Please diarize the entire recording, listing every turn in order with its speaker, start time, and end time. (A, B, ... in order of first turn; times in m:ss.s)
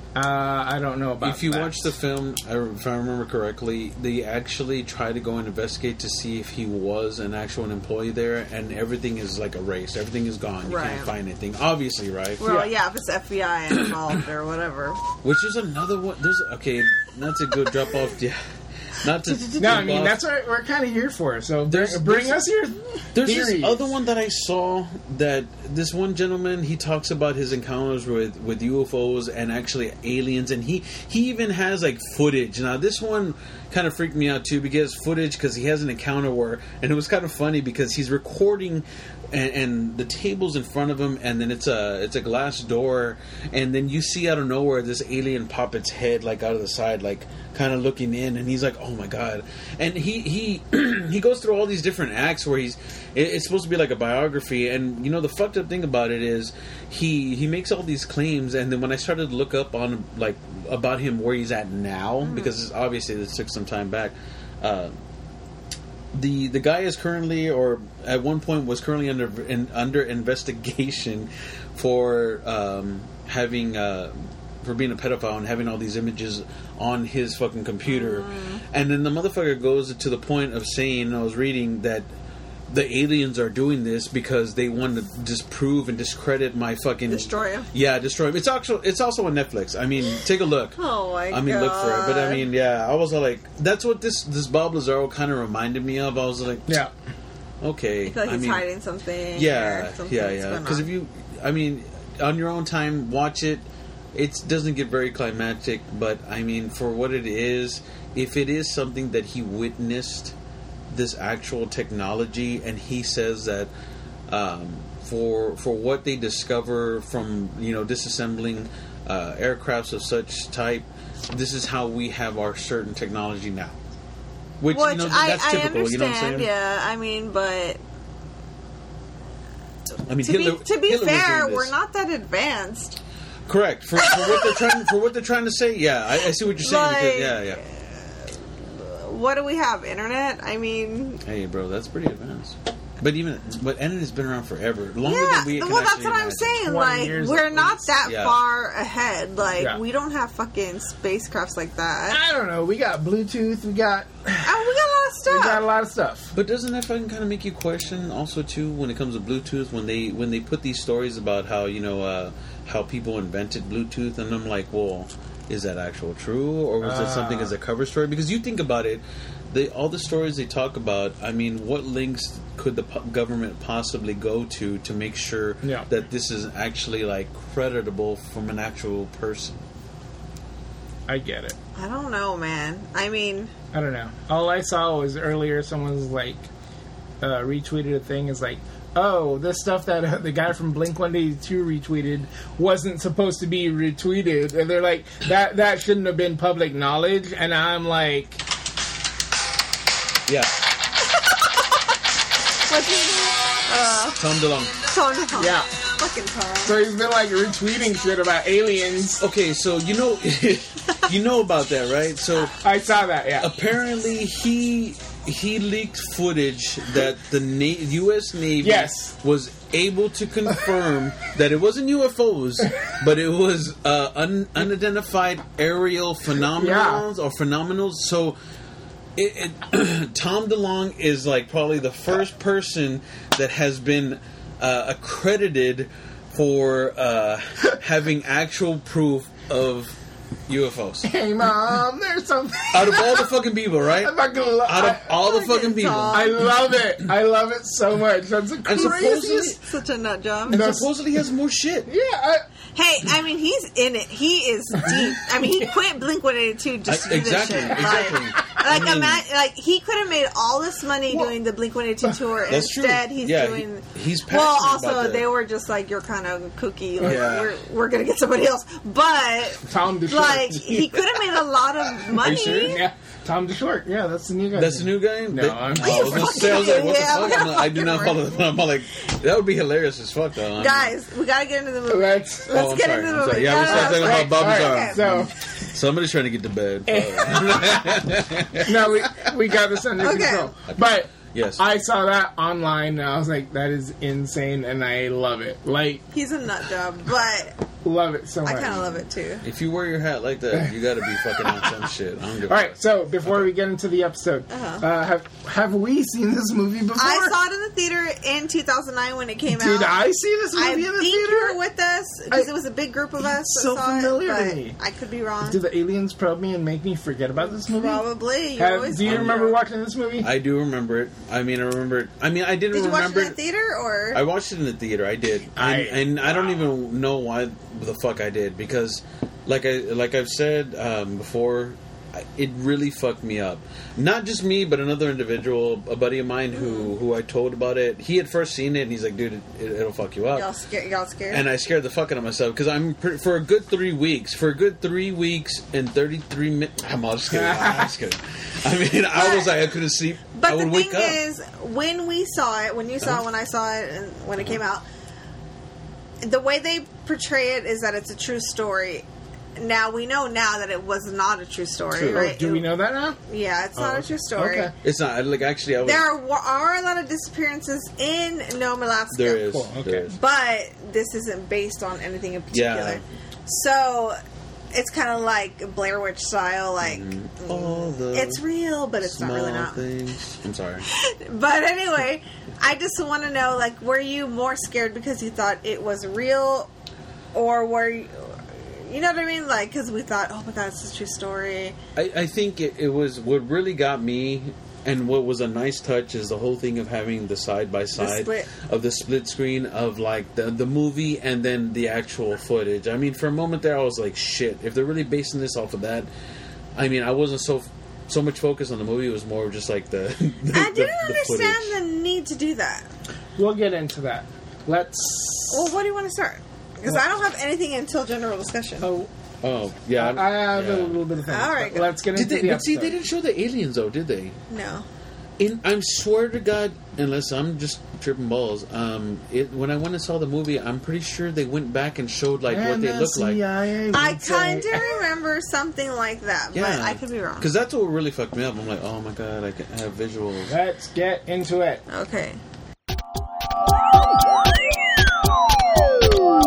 0:00.1-0:01.9 A
0:01.2-0:12.4 B
0:10.6-0:11.1 C
0:12.4-0:15.0 C
0:12.4-0:12.7 A
0:15.2-0:18.4 B
0:19.0-0:20.2 B
0:19.5-0:23.9 A
0:21.7-0:22.4 B
0:23.1-1:04.9 B
1:02.2-1:02.6 C
1:06.1-1:22.1 B
1:17.9-1:18.6 C
1:22.7-1:30.8 B
1:27.1-1:27.7 C
1:30.8-1:32.4 C
1:31.3-1:36.8 B
1:37.6-1:38.6 B
1:38.0-1:40.9 C
1:39.3-1:50.3 B
1:50.9-1:53.7 B
1:54.3-2:03.8 B
2:04.6-2:06.5 B
2:04.7-2:07.8 C
2:10.0-2:11.7 B
2:10.2-2:13.0 C
2:13.5-2:17.6 B
2:14.0-2:14.6 C
2:16.6-2:21.2 C
2:21.2-2:26.6 B
2:25.0-2:32.2 C
2:26.6-2:27.9 A
2:28.0-2:28.4 B
2:32.1-2:34.7 A
2:34.4-2:35.6 C
2:35.2-2:36.3 A
2:36.3-2:59.6 B
2:46.8-2:47.6 A
2:55.6-2:55.9 A
3:01.1-3:01.6 A
3:01.8-3:03.5 C
3:03.7-3:06.5 A
3:07.2-3:18.4 A
3:20.3-3:20.5 B
3:22.7-3:24.2 C
3:24.2-3:24.8 B
3:24.8-3:26.8 C
3:25.3-3:25.7 A
3:26.6-3:29.2 A
3:29.2-3:32.6 B
3:32.5-3:33.5 A
3:33.4-3:48.4 B
3:38.6-3:39.1 A
3:46.5-3:47.0 A
3:49.2-3:59.9 B
4:00.5-4:01.1 B
4:01.0-4:03.3 A
4:02.7-4:06.5 B
4:03.9-4:05.1 A
4:05.1-4:06.4 C
4:06.1-4:09.5 A
4:08.6-4:09.6 B
4:08.8-4:10.6 C
4:10.5-4:10.9 A
4:10.5-4:11.9 B
4:11.9-4:12.4 A
4:12.7-4:32.8 C
4:16.8-4:19.2 B
4:22.5-4:25.3 B
4:27.0-4:27.6 B
4:29.6-4:31.0 A
4:32.1-4:32.8 B
4:32.2-4:37.0 A
4:34.5-4:40.9 B
4:35.8-4:38.3 C
4:40.6-4:45.3 C
4:41.9-4:42.6 A
4:42.5-4:49.3 B
4:43.6-4:45.3 A
4:46.9-4:48.0 A
4:48.6-4:56.0 A
4:50.0-4:50.5 C
4:50.7-4:51.6 B
4:56.1-4:57.6 C
4:57.8-4:59.0 A
4:58.4-4:59.4 C
4:59.4-5:03.5 B
5:00.5-5:01.9 A
5:02.5-5:07.4 A
5:04.5-5:04.9 C
5:07.0-5:10.0 C
5:09.5-5:11.6 A
5:10.5-5:15.6 C
5:13.2-5:14.8 A
5:15.4-5:18.0 A
5:17.4-5:19.6 C
5:18.6-5:20.3 A
5:19.0-5:19.4 B
5:20.2-5:23.4 B
5:22.7-5:24.2 C
5:24.1-5:40.5 B
5:25.5-5:26.6 A
5:36.5-5:36.9 C
5:40.3-5:41.4 C
5:41.3-5:51.2 B
5:47.3-5:47.9 A
5:49.1-5:49.7 C
5:50.3-5:54.8 C
5:56.2-6:02.7 C
6:01.9-6:02.3 B
6:02.1-6:03.2 A
6:03.3-6:04.7 C
6:03.8-6:04.7 A
6:04.8-6:06.1 B
6:05.8-6:09.5 C
6:09.1-6:10.2 B
6:09.4-6:10.1 A
6:10.1-6:14.2 C
6:12.5-6:13.0 B
6:14.7-6:19.8 C
6:16.8-6:18.4 B
6:19.0-6:20.9 B
6:20.9-6:26.7 C
6:27.3-6:31.8 C
6:32.0-6:46.1 B
6:37.9-6:38.5 C
6:46.8-6:51.8 B
6:50.5-6:52.9 C
6:53.4-6:55.7 A
6:55.5-6:58.9 C
6:58.8-6:59.1 A
6:59.4-7:01.0 B
6:59.9-7:03.0 A
7:01.3-7:02.0 C
7:02.1-7:04.4 B
7:04.5-7:04.8 C
7:05.4-7:13.4 B
7:12.5-7:15.0 A
7:13.9-7:17.5 C
7:16.5-7:20.5 B
7:20.5-7:21.8 A
7:21.9-7:22.4 C